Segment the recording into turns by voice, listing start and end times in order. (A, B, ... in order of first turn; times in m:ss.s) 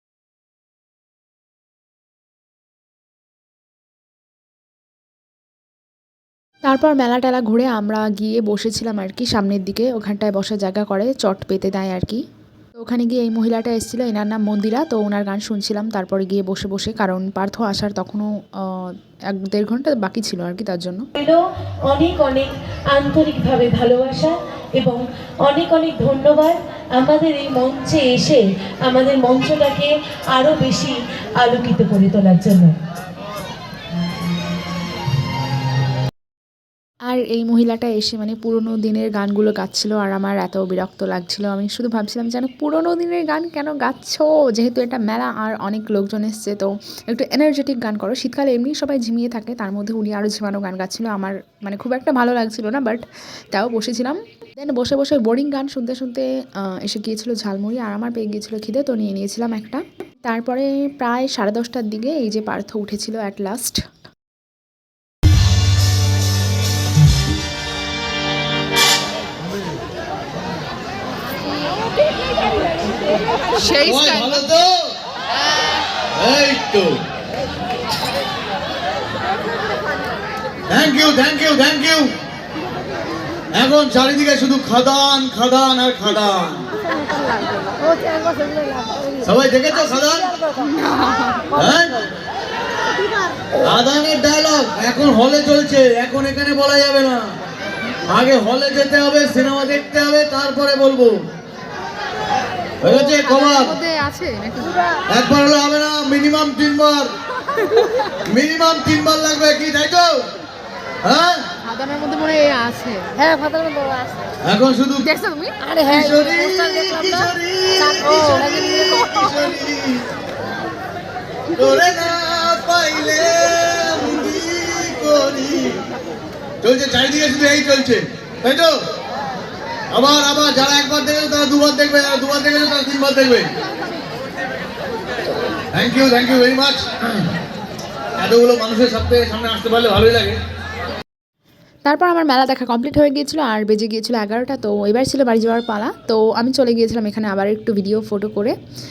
0:06.7-0:12.2 A
0:12.8-0:21.1 A
0:21.2-0:32.7 B
0:37.1-1:03.8 A
1:13.6-1:14.4 A
1:13.8-1:14.9 C
1:16.2-1:17.0 C
1:20.7-1:22.1 C
1:23.5-1:26.7 C
1:27.8-1:29.0 D
1:29.2-1:30.4 C
1:31.5-1:32.1 C
1:33.6-1:37.4 C
1:38.1-1:41.2 C
1:42.8-1:43.8 C
1:42.9-1:44.8 A
1:45.1-1:47.1 C
1:48.2-1:50.2 C
1:51.0-1:51.4 C
1:51.6-1:53.3 A
1:53.3-1:54.2 D
1:54.4-1:55.1 C
1:55.0-1:55.6 A
1:55.7-1:57.0 D
1:55.8-2:00.1 C
1:58.0-1:59.1 D
2:01.5-2:05.8 C
2:06.6-2:08.8 C
2:09.9-2:13.5 C
2:15.7-2:17.3 C
2:18.2-2:20.4 C
2:21.8-2:28.5 A